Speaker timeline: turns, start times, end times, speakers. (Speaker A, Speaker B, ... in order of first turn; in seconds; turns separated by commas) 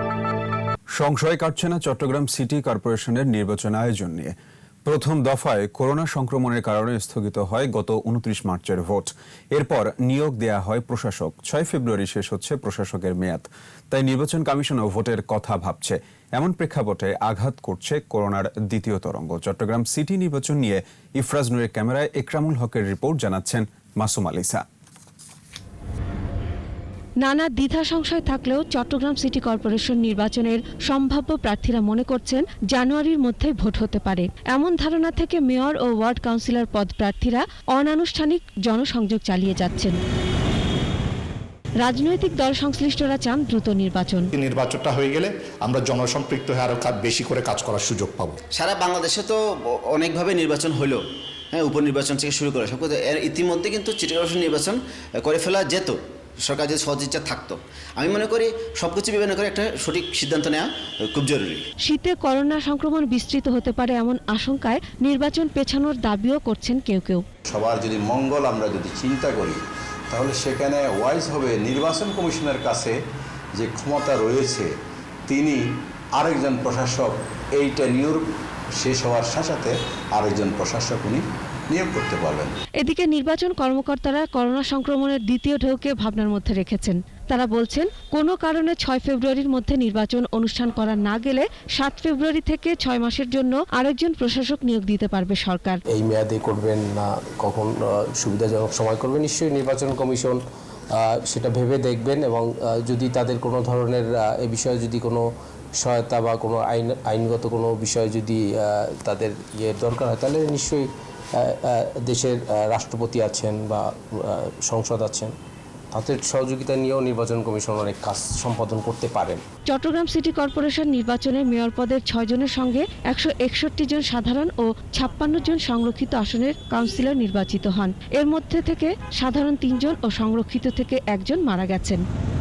Speaker A: 0.9-4.3, Speaker A: 4.8-24.6, Speaker B: 27.2-40.0, Speaker B: 41.8-44.3, Speaker C: 44.4-48.4, Speaker D: 48.5-49.4, Speaker D: 49.9-51.0, Speaker D: 51.5-61.6, Speaker B: 61.8-67.2, Speaker E: 67.5-72.9, Speaker E: 73.5-74.7, Speaker E: 75.3-75.6, Speaker E: 76.2-78.3, Speaker E: 78.8-82.6, Speaker B: 82.8-95.8, Speaker F: 95.9-100.4, Speaker F: 100.9-105.2, Speaker F: 105.8-115.3, Speaker F: 115.9-119.4, Speaker B: 119.7-132.0